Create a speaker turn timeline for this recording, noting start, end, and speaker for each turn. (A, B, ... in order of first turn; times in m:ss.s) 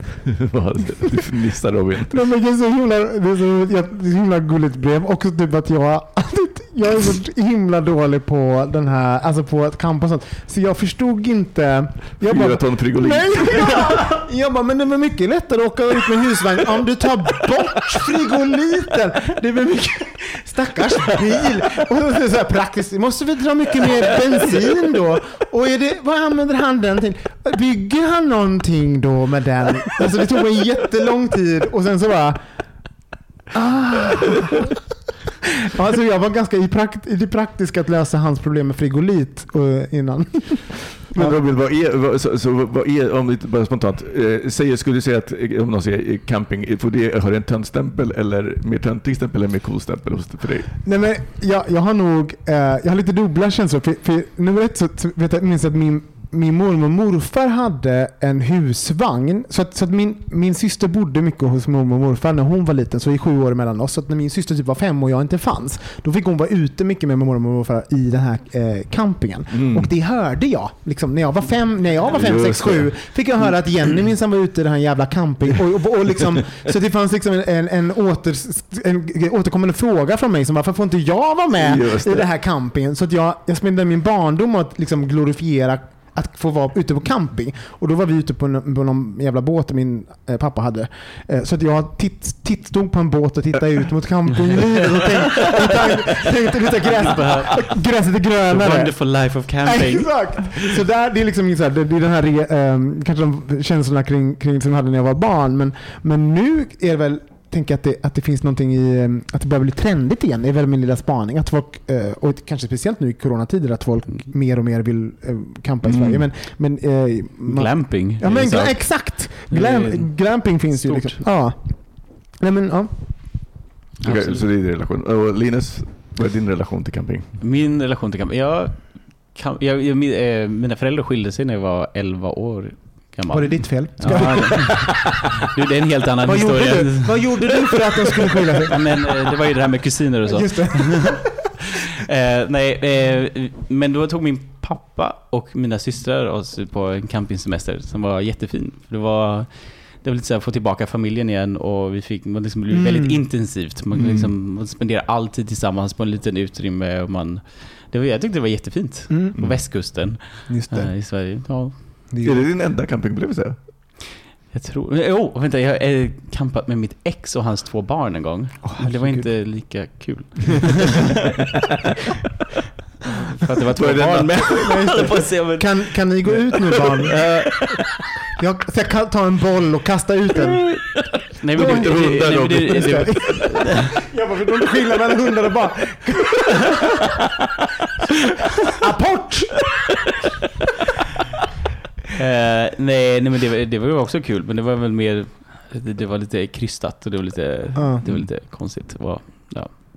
0:00.4-0:02.2 A
0:02.1-0:32.5 B
0:12.2-0:14.0 A
0:33.5-0:34.6 B
0:35.6-0:41.4 B
0:41.1-0:50.7 A
0:50.8-2:03.6 B
1:09.5-1:09.9 A
1:12.1-1:13.9 A
1:21.6-1:22.3 A
1:36.9-1:37.8 C
1:38.5-1:40.7 C
1:55.8-1:56.2 A
1:57.4-2:01.2 C
2:04.0-2:04.4 C
2:04.0-2:07.4 A
2:07.4-2:17.6 C
2:13.3-2:14.8 B
2:16.2-2:18.8 B
2:18.7-2:21.4 C
2:20.2-2:21.3 B
2:22.0-2:41.8 C
2:32.7-2:33.2 B
2:33.9-2:34.3 A
2:39.1-2:41.5 B
2:42.1-2:42.4 B
2:42.2-2:43.6 A
2:44.5-2:51.1 C
2:48.6-2:49.9 B
2:53.3-2:56.5 C
2:53.8-2:54.9 A
2:54.6-2:57.2 B
2:57.2-2:57.6 A
2:58.4-3:00.7 B
3:01.4-3:03.7 C
3:01.5-3:03.4 A
3:02.7-3:06.8 B
3:08.8-3:09.7 B
3:12.2-3:19.7 C
3:17.7-3:18.0 B